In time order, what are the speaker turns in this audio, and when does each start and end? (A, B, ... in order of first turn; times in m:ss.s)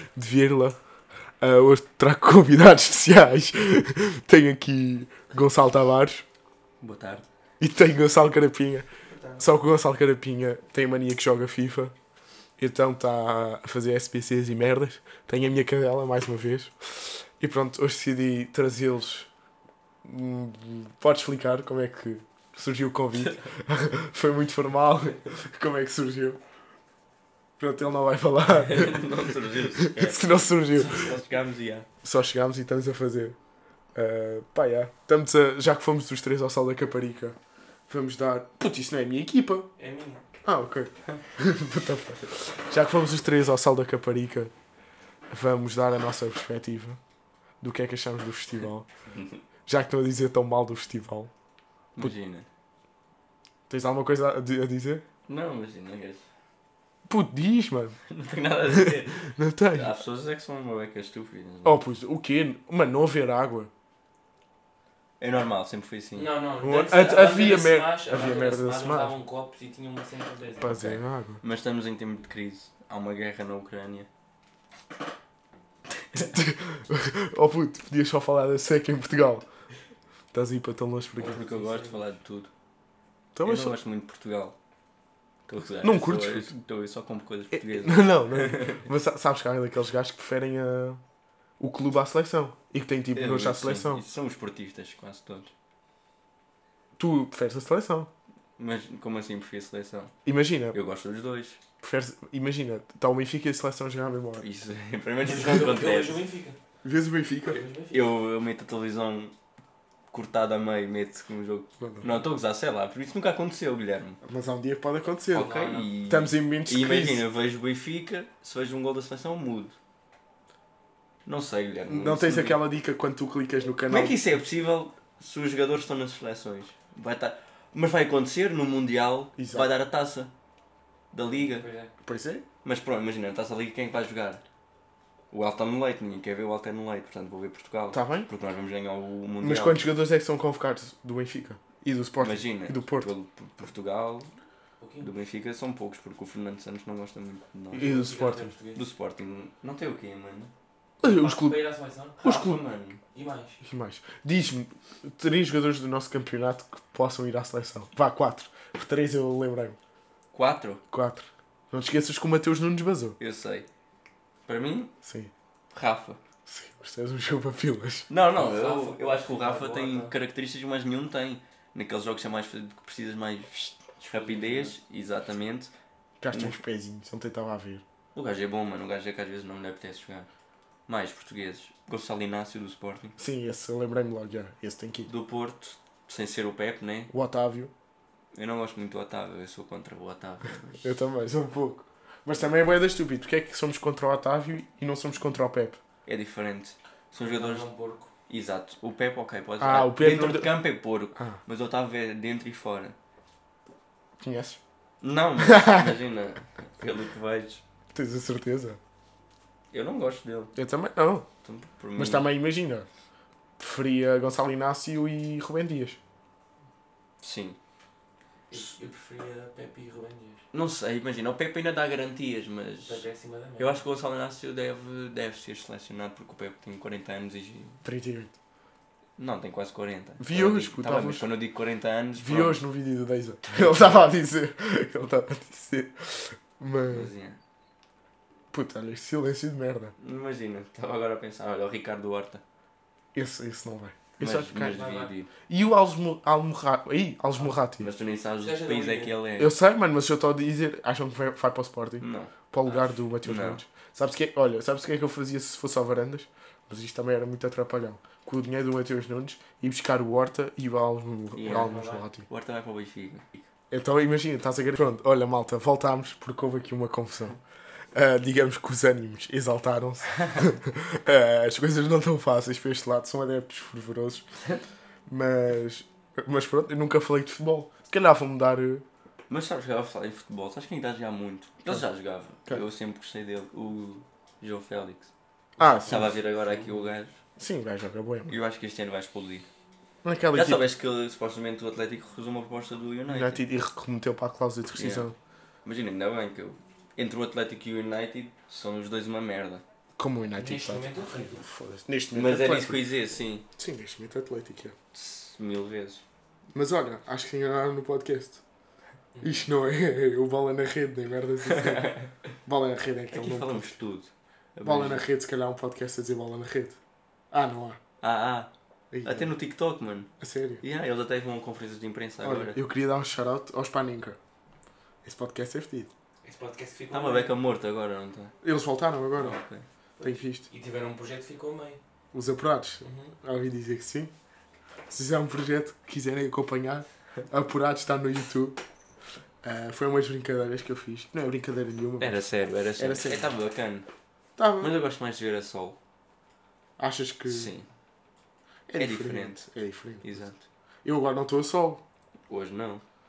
0:00.1-0:00.8 A
0:01.4-0:06.2 A
0:06.8-0:07.2 B
0:07.6-0:08.9 A
0:09.0-0:09.5 C
0:09.4-0:11.9 A
0:12.6-0:19.3 A
0:20.0-0:26.4 A
0:27.6-0:31.1 A
0:28.6-0:31.9 B
0:30.8-0:31.2 C
0:32.0-0:33.4 A
0:33.9-0:37.4 A
0:37.9-0:39.7 A
0:39.8-0:40.2 C
0:40.4-0:44.5 A
0:45.3-0:47.0 A
0:47.6-0:48.9 A
0:49.6-0:51.3 A
0:52.0-0:52.5 B
0:53.7-0:55.0 A
0:55.3-0:56.2 B
0:57.1-0:58.0 A
0:58.1-1:01.8 B
0:58.7-0:59.9 A
1:01.6-1:03.7 A
1:05.2-1:06.3 B
1:06.1-1:10.7 C
1:06.6-1:09.1 A
1:10.6-1:11.4 A
1:10.6-1:14.1 B
1:16.1-1:19.4 A
1:20.3-1:21.4 A
1:21.2-1:22.5 B
1:21.2-1:22.0 C
1:23.3-1:23.8 A
1:23.4-1:24.5 B
1:25.5-1:28.8 B
1:25.8-1:26.5 A
1:27.5-1:31.0 A
1:31.6-1:34.0 A
1:33.1-1:35.5 B
1:37.0-1:38.1 A
1:38.6-1:40.1 B
1:40.2-1:40.8 A
1:40.7-1:41.6 B
1:41.8-1:44.4 A
1:44.4-1:46.2 B
1:45.2-1:46.6 C
1:46.8-1:47.6 A
1:47.4-1:48.1 C
1:47.9-1:49.3 B
1:50.1-1:54.2 B
1:51.8-1:52.1 A
1:54.2-1:55.5 A
1:55.3-1:59.8 B
1:55.3-1:55.9 C
1:56.0-1:57.2 A
2:01.2-2:02.6 B
2:01.9-2:04.2 A
2:03.9-2:10.3 B
2:09.4-2:09.7 A
2:11.1-2:11.7 B
2:11.4-2:11.9 C
2:12.0-2:12.4 A
2:12.6-2:14.4 B
2:15.3-2:19.9 B
2:17.9-2:18.3 A
2:19.4-2:23.1 A
2:22.2-2:24.3 B
2:24.8-2:25.1 C
2:25.0-2:28.0 B
2:27.7-2:28.8 C
2:27.7-2:28.5 A
2:28.7-2:30.5 B
2:31.0-2:31.6 A
2:31.0-2:32.2 C
2:32.2-2:33.0 B
2:32.2-2:32.6 A
2:33.1-2:33.6 C
2:33.6-2:39.8 A
2:40.3-2:40.8 B
2:40.9-2:43.2 A
2:43.2-2:43.7 B
2:44.4-2:44.9 B
2:45.0-2:45.3 A
2:45.7-2:46.2 B
2:46.4-2:48.1 A
2:48.1-2:55.7 B
2:48.4-2:50.1 C
2:54.1-2:54.8 C
2:56.2-2:57.8 A
2:56.3-2:56.6 B
2:58.1-3:00.3 B
3:00.9-3:03.2 B
3:03.2-3:05.1 A
3:05.0-3:07.1 B
3:07.1-3:07.7 A
3:08.3-3:10.8 B
3:10.8-3:15.8 A
3:16.0-3:17.7 B
3:17.2-3:18.1 C
3:18.3-3:23.0 B
3:19.6-3:20.5 A
3:24.2-3:24.6 A
3:25.0-3:27.6 B
3:25.4-3:25.9 A
3:27.9-3:28.8 A
3:29.7-3:30.5 B
3:30.5-3:31.3 A
3:31.4-3:32.3 B
3:32.0-3:32.9 A
3:33.6-3:36.0 A
3:37.2-3:37.6 B
3:38.5-3:40.4 C
3:40.5-3:43.0 B
3:42.8-3:43.8 C
3:43.6-3:47.8 B
3:47.8-3:48.3 A
3:49.2-3:52.6 B
3:50.2-3:51.3 A
3:52.2-3:57.1 A
3:53.5-3:53.9 B
3:56.9-3:57.4 B
3:58.5-3:59.9 A
4:00.0-4:02.4 B
4:03.1-4:04.8 A
4:04.2-4:05.3 B
4:04.6-4:05.1 C
4:05.5-4:07.9 A
4:07.7-4:09.5 B
4:08.4-4:09.1 C
4:09.4-4:22.2 A
4:12.0-4:12.3 B
4:13.2-4:13.6 B
4:21.3-4:23.5 B
4:21.4-4:22.0 C
4:23.7-4:27.4 A
4:27.9-4:34.3 A
4:35.1-4:38.8 A
4:39.3-4:45.1 B
4:45.6-4:46.2 A
4:45.8-4:47.2 B
4:46.5-4:46.8 C
4:47.4-4:48.4 A
4:48.3-4:49.5 B
4:50.0-4:50.6 A
4:50.3-4:53.4 B
4:53.1-4:55.1 A
4:54.8-4:55.1 B
4:55.6-4:59.6 B
5:00.0-5:02.8 A
5:00.4-5:01.4 C
5:02.1-5:03.4 B
5:03.5-5:04.8 A
5:04.9-5:06.0 B
5:06.5-5:08.4 A
5:09.1-5:09.4 C
5:09.2-5:11.9 A
5:11.4-5:12.2 B
5:12.4-5:13.8 A
5:13.1-5:15.1 B
5:14.6-5:16.8 A
5:17.3-5:17.8 A
5:18.0-5:18.5 B
5:18.9-5:19.3 A
5:19.0-5:20.1 B
5:20.2-5:20.6 A
5:20.6-5:22.6 B
5:22.2-5:24.2 A
5:25.0-5:25.9 A
5:26.2-5:27.3 C
5:26.9-5:28.3 B
5:28.4-5:29.4 A
5:29.1-5:29.6 B
5:30.0-5:31.8 C
5:30.0-5:30.4 A
5:32.1-5:34.1 A
5:32.8-5:33.1 C
5:34.9-5:38.6 A
5:39.4-5:42.2 A
5:42.0-5:43.9 B
5:42.8-5:43.3 A
5:44.4-5:44.7 A
5:44.6-5:45.8 B
5:46.8-5:47.5 A
5:47.3-5:47.7 B
5:48.7-5:50.2 A
5:48.8-5:49.5 B
5:50.0-5:50.4 B
5:50.8-5:51.8 A
5:52.3-5:52.8 B